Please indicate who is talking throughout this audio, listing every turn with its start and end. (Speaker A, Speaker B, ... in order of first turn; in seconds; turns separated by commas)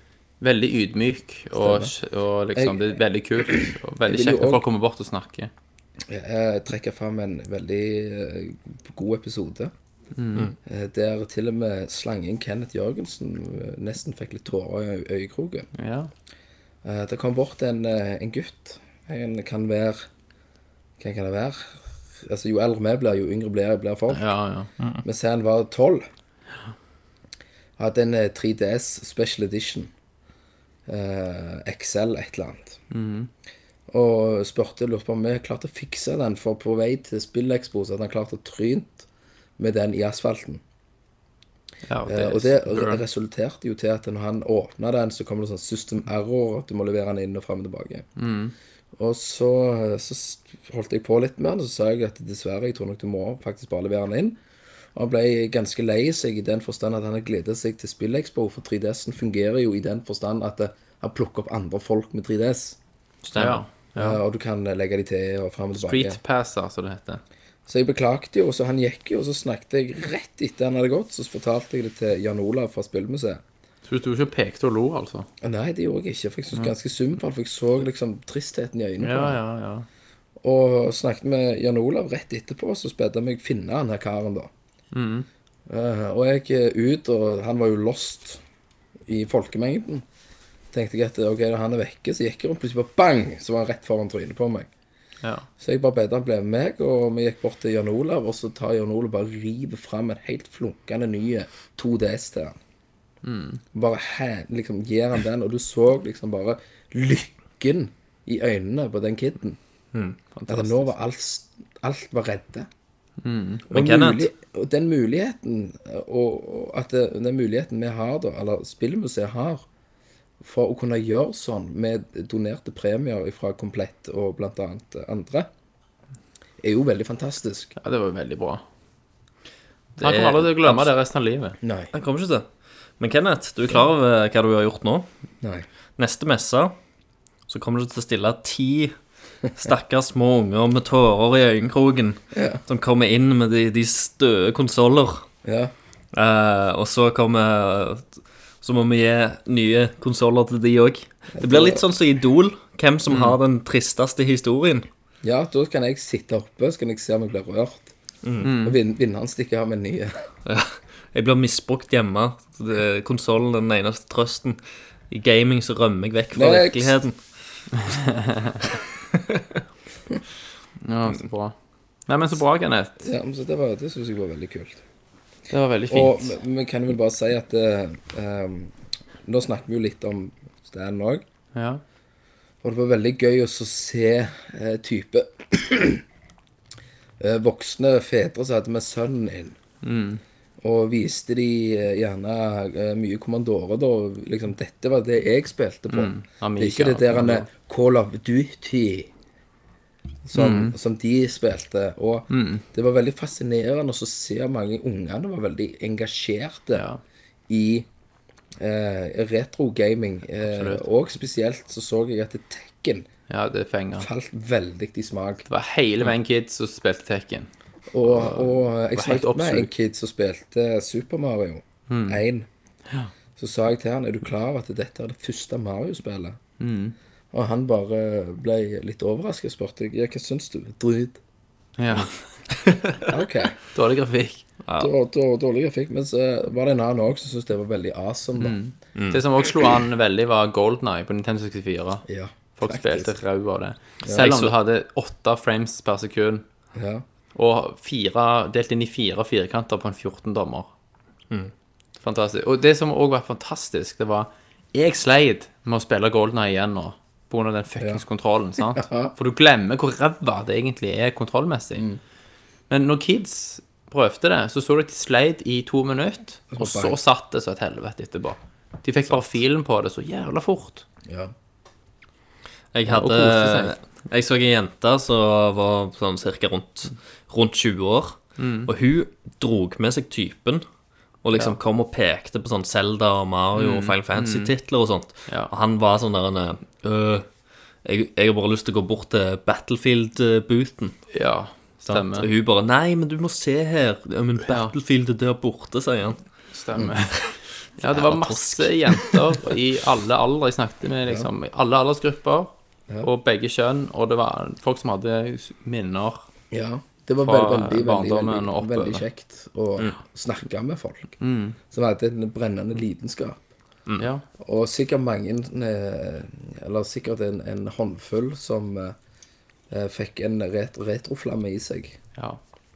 Speaker A: 0.4-5.5, Speaker B: 1.5-1.9, Speaker B: 3.5-4.6, Speaker B: 6.1-9.7, Speaker A: 10.2-10.5, Speaker B: 10.7-15.7, Speaker A: 15.8-16.1, Speaker B: 16.8-20.1, Speaker B: 21.0-24.3, Speaker A: 24.1-24.7, Speaker B: 24.9-26.1, Speaker B: 27.8-29.9, Speaker B: 30.9-32.8, Speaker A: 32.9-33.3, Speaker B: 33.9-39.1, Speaker B: 39.6-40.6, Speaker A: 41.9-43.0, Speaker B: 42.0-48.1, Speaker A: 48.2-48.5, Speaker B: 49.0-54.4, Speaker B: 55.0-62.8, Speaker A: 63.2-64.2, Speaker B: 63.4-66.2, Speaker A: 65.8-67.2, Speaker B: 67.7-73.4, Speaker A: 73.9-75.3, Speaker B: 75.4-79.4, Speaker A: 79.0-79.9, Speaker B: 80.4-84.5, Speaker A: 84.9-85.3, Speaker B: 85.7-88.4, Speaker B: 89.1-90.0, Speaker B: 90.7-94.7, Speaker A: 95.2-95.5, Speaker B: 95.6-102.6, Speaker A: 103.2-103.6, Speaker B: 103.7-109.6, Speaker C: 109.9-110.2, Speaker A: 110.3-110.9, Speaker B: 110.5-112.7, Speaker A: 113.2-113.7, Speaker B: 113.7-119.7, Speaker C: 113.7-114.3, Speaker B: 120.4-125.5, Speaker B: 126.6-127.7, Speaker A: 127.8-128.6, Speaker C: 130.0-130.9, Speaker A: 130.0-131.6, Speaker B: 131.6-131.9, Speaker C: 131.9-132.5, Speaker C: 133.0-135.1, Speaker B: 135.4-135.7, Speaker C: 136.0-136.8, Speaker C: 137.5-139.0, Speaker C: 139.5-145.3, Speaker B: 142.3-142.6, Speaker B: 145.4-145.7, Speaker C: 146.1-154.9, Speaker B: 151.3-151.8, Speaker B: 155.2-157.9, Speaker C: 158.2-158.5, Speaker A: 158.4-158.8, Speaker B: 158.6-160.3, Speaker C: 160.4-167.9, Speaker B: 166.3-167.0, Speaker A: 170.8-173.0, Speaker B: 173.0-174.8, Speaker A: 175.5-176.3, Speaker B: 175.9-181.2, Speaker A: 181.5-181.8, Speaker B: 182.6-186.0, Speaker B: 187.2-189.6, Speaker A: 189.8-190.2, Speaker B: 190.6-199.1, Speaker A: 195.9-197.5, Speaker B: 200.2-206.9, Speaker A: 200.3-200.8, Speaker A: 202.3-202.7, Speaker A: 206.7-207.0, Speaker B: 207.5-207.9, Speaker B: 208.6-213.1, Speaker A: 210.4-210.8, Speaker A: 213.3-214.1, Speaker B: 214.0-215.4, Speaker A: 215.5-217.5, Speaker B: 217.9-222.5, Speaker A: 218.1-219.7, Speaker A: 221.9-222.2, Speaker B: 223.4-226.4, Speaker A: 226.6-226.9, Speaker B: 227.3-231.2, Speaker A: 231.8-232.1, Speaker B: 233.1-233.6, Speaker A: 233.7-234.5, Speaker C: 234.7-234.9, Speaker B: 234.8-238.6, Speaker A: 238.4-242.1, Speaker C: 239.0-239.2, Speaker B: 242.1-243.2, Speaker A: 242.6-246.4, Speaker C: 244.1-244.5, Speaker B: 246.8-247.0, Speaker A: 247.3-250.7, Speaker A: 252.0-261.9, Speaker B: 258.6-259.1, Speaker A: 262.7-270.9, Speaker B: 266.5-267.0, Speaker B: 271.1-271.3, Speaker C: 272.7-280.6, Speaker A: 272.9-273.8, Speaker A: 278.4-278.7, Speaker C: 281.2-287.3, Speaker A: 283.6-284.5, Speaker C: 287.8-291.0, Speaker A: 291.1-292.3, Speaker C: 291.9-296.3, Speaker A: 294.5-294.8, Speaker A: 296.5-306.3, Speaker C: 297.2-299.4, Speaker B: 306.5-311.2, Speaker A: 307.2-309.0, Speaker A: 311.2-311.6, Speaker B: 311.7-313.4, Speaker A: 314.0-314.2, Speaker B: 314.4-319.0, Speaker B: 319.7-322.0